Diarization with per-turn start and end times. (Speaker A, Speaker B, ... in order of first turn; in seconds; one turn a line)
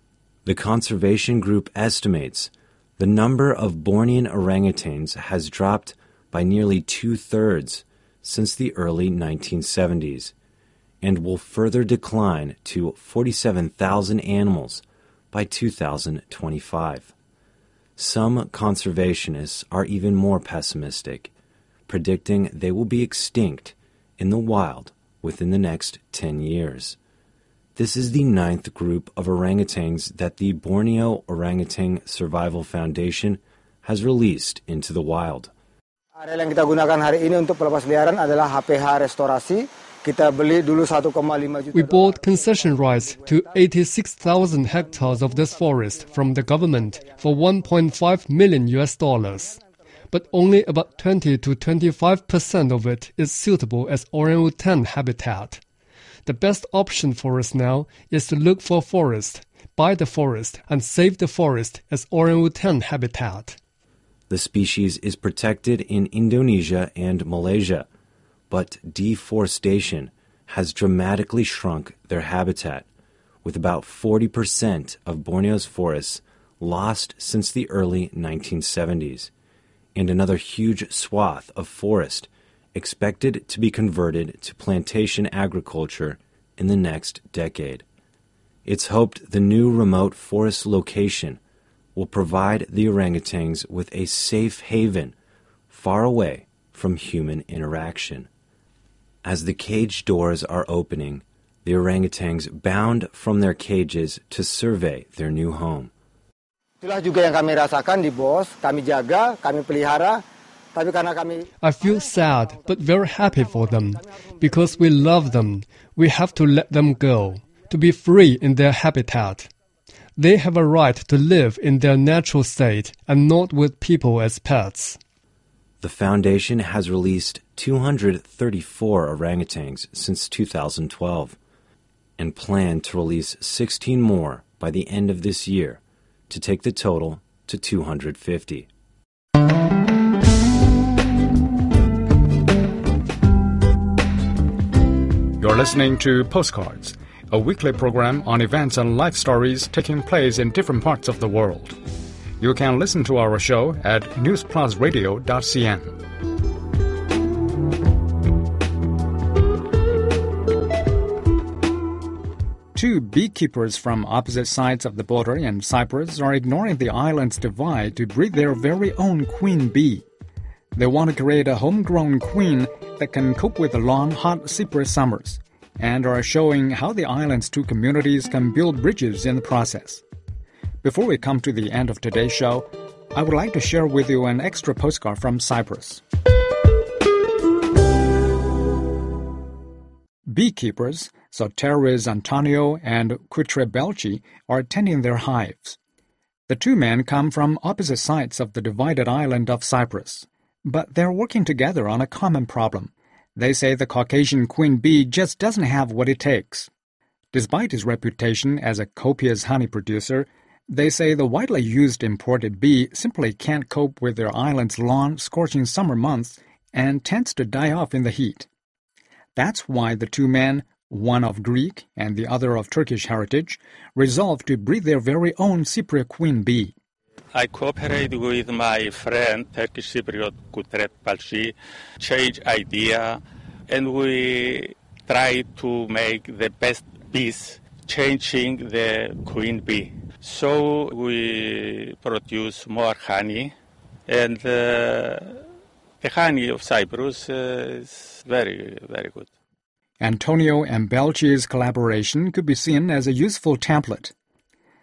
Speaker A: 0.5-10.3
Speaker A: 11.0-17.1
Speaker A: 18.0-21.3
Speaker A: 21.9-27.0
Speaker A: 27.8-35.5
Speaker B: 36.2-42.2
Speaker C: 41.7-49.6
Speaker C: 50.1-55.6
Speaker C: 56.3-63.6
Speaker A: 64.3-67.9
Speaker A: 68.5-72.9
Speaker A: 73.4-79.3
Speaker A: 80.0-87.8
Speaker A: 88.7-91.4
Speaker A: 92.0-95.2
Speaker A: 95.7-98.3
Speaker A: 99.2-105.9
Speaker B: 106.8-110.2
Speaker B: 110.8-111.5
Speaker C: 111.6-119.5
Speaker C: 120.2-125.0
Speaker A: 125.8-131.4
Speaker A: 132.2-138.7
Speaker D: 145.4-151.8
Speaker D: 152.4-156.0
Speaker D: 162.7-170.1
Speaker D: 170.8-180.0
Speaker D: 180.8-186.0
Speaker D: 190.3-195.8
Speaker D: 196.5-206.7
Speaker D: 207.3-218.5
Speaker D: 219.4-226.8
Speaker E: 227.3-243.5
Speaker E: 244.1-245.4
Speaker E: 246.0-249.3
Speaker D: 250.0-254.1